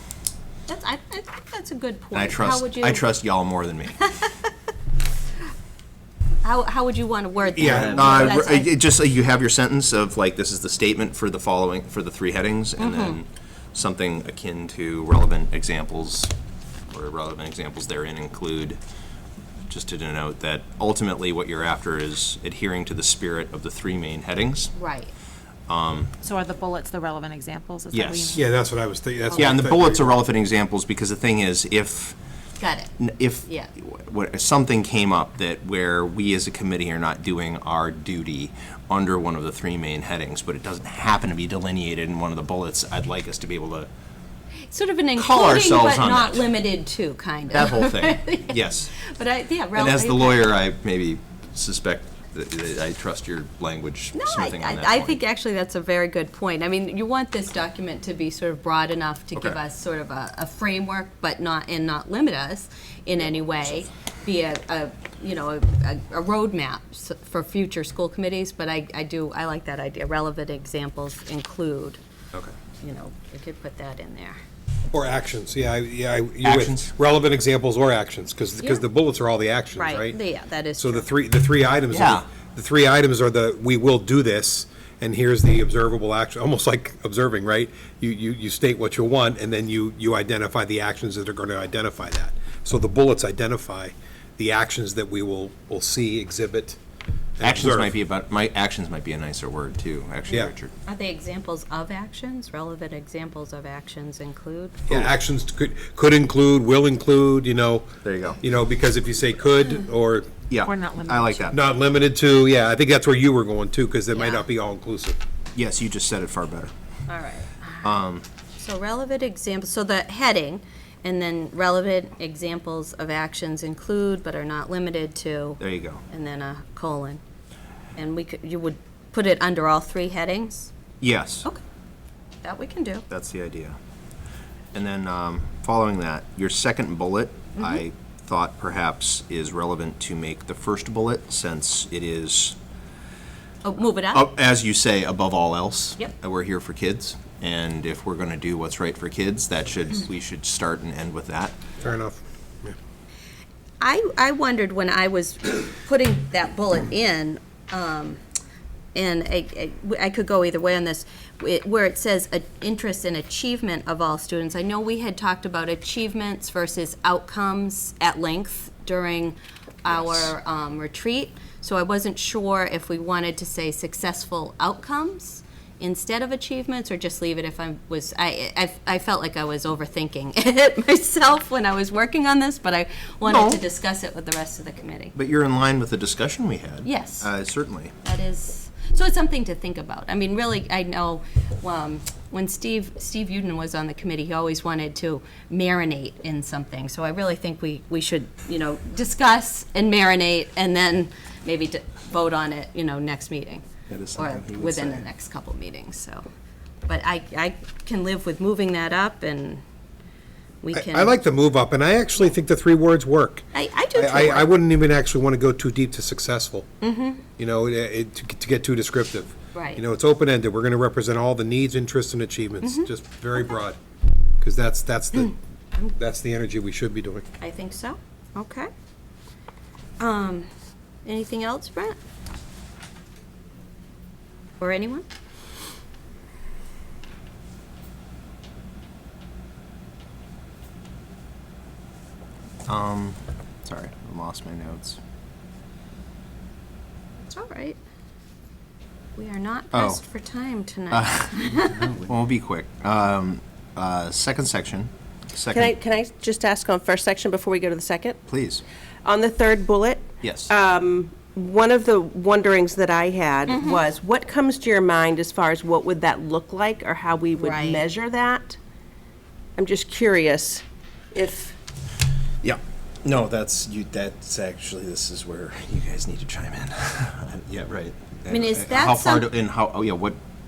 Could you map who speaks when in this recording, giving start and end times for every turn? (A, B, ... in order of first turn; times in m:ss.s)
0:00.7-0:03.0 A
0:02.1-0:04.0 B
0:04.0-0:04.4 A
0:06.4-0:08.7 A
0:07.5-0:08.4 C
0:07.5-0:16.3 B
0:12.8-0:13.2 A
0:16.9-0:18.8 B
0:19.7-0:24.7 B
0:24.8-0:25.1 A
0:25.7-0:26.1 B
0:26.2-0:28.4 D
0:27.9-0:28.3 B
0:28.3-0:30.2 C
0:29.3-0:32.2 B
0:32.6-0:32.9 A
0:33.0-0:43.9 B
0:44.7-0:50.6 A
0:45.2-0:46.6 B
0:47.5-0:48.9 B
0:49.8-0:55.2 B
0:54.1-1:12.0 A
1:12.8-1:14.4 A
1:14.9-1:20.2 C
1:16.4-1:16.9 B
1:19.8-1:21.1 A
1:20.8-1:36.8 C
1:21.9-1:22.2 B
1:37.4-1:38.0 C
1:37.4-1:40.7 B
1:40.9-1:44.8 A
1:44.9-1:50.4 C
1:48.0-1:48.4 B
1:50.5-1:51.6 B
1:50.6-1:51.5 D
1:51.5-1:55.2 C
1:54.1-1:54.4 A
1:55.6-1:56.7 B
1:57.1-1:58.0 A
1:57.8-1:58.2 B
1:58.6-2:07.2 A
2:05.6-2:06.0 B
2:08.0-2:10.7 A
2:11.0-2:11.5 B
2:12.4-2:13.0 A
2:13.1-2:13.8 B
2:14.7-2:22.6 B
2:17.6-2:17.8 A
2:23.6-2:24.3 A
2:24.1-2:31.6 B
2:31.8-2:32.8 C
2:33.8-2:38.2 A
2:38.9-3:05.2 A
3:03.2-3:03.6 B
3:05.2-3:07.9 B
3:06.8-3:07.3 A
3:08.0-3:26.2 A
3:23.9-3:25.0 B
3:26.9-3:29.6 A
3:30.6-3:31.2 A
3:30.7-3:36.7 C
3:33.5-3:34.6 A
3:36.8-3:37.2 A
3:37.4-3:43.8 C
3:39.5-3:39.8 A
3:42.6-3:42.9 A
3:44.4-3:45.3 C
3:45.9-3:47.2 C
3:47.4-3:48.7 A
3:50.0-3:50.5 A
3:51.0-3:52.0 A
3:54.6-3:55.1 A
4:02.7-4:05.0 B
4:07.2-4:07.8 A
4:09.2-4:12.0 A
4:09.7-4:10.0 B
4:10.9-4:15.7 B
4:15.5-4:18.2 E
4:18.3-4:18.6 B
4:19.0-4:28.6 E
4:20.2-4:20.5 B
4:23.5-4:23.8 A
4:27.4-4:27.8 A
4:29.6-4:31.6 E
4:32.4-4:40.2 B
4:38.3-4:39.3 A